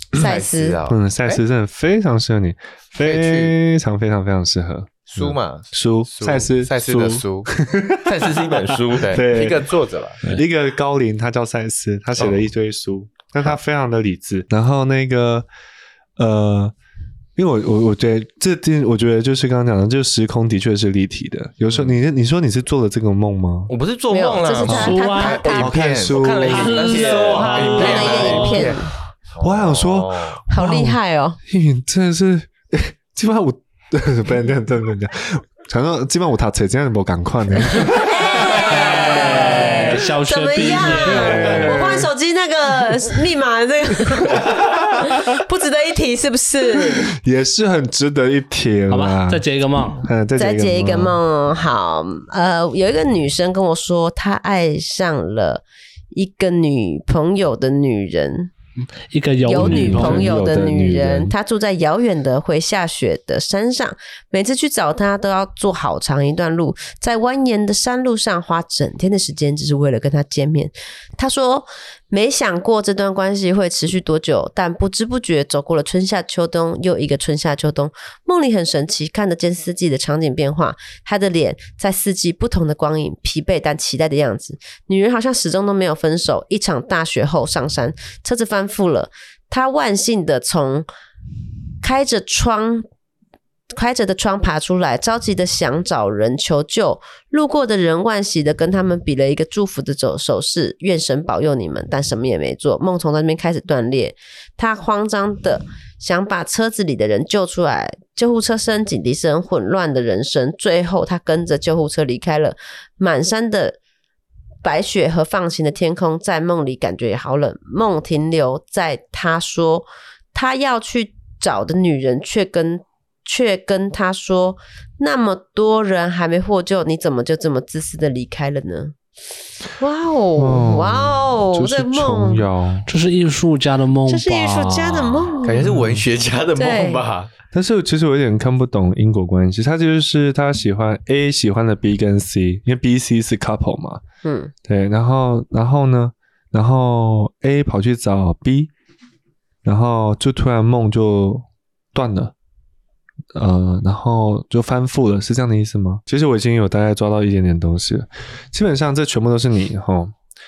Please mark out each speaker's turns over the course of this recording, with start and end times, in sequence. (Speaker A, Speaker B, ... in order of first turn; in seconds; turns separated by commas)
Speaker A: 0.1-0.8, Speaker B: 0.1-1.4, Speaker C: 0.9-15.5, Speaker B: 3.0-3.5, Speaker B: 5.1-7.5, Speaker D: 8.1-9.3, Speaker B: 9.0-10.4, Speaker C: 16.2-16.7, Speaker C: 17.4-23.7, Speaker D: 23.7-25.1, Speaker A: 24.1-25.8, Speaker C: 24.7-26.9, Speaker E: 24.7-25.5, Speaker B: 25.2-28.8, Speaker D: 26.0-28.2, Speaker E: 26.4-28.7, Speaker A: 27.7-28.9, Speaker B: 29.3-30.4, Speaker C: 29.4-39.7, Speaker A: 30.5-31.4, Speaker A: 37.9-47.1, Speaker E: 38.5-41.8, Speaker C: 40.9-42.1, Speaker C: 44.5-44.8, Speaker C: 47.1-49.5, Speaker E: 48.9-50.0, Speaker C: 50.0-51.2, Speaker A: 50.4-58.5, Speaker E: 59.1-60.4, Speaker A: 59.4-90.9, Speaker C: 59.5-61.3, Speaker A: 91.8-92.9, Speaker A: 93.7-113.8, Speaker A: 114.6-129.0, Speaker A: 129.8-132.4, Speaker C: 130.4-132.9, Speaker E: 132.9-135.4, Speaker A: 134.1-135.7, Speaker B: 135.4-137.3, Speaker C: 135.6-136.0, Speaker A: 136.6-137.1, Speaker C: 137.5-144.0, Speaker A: 144.2-144.5, Speaker C: 144.7-148.7, Speaker C: 149.6-152.3, Speaker C: 153.3-160.1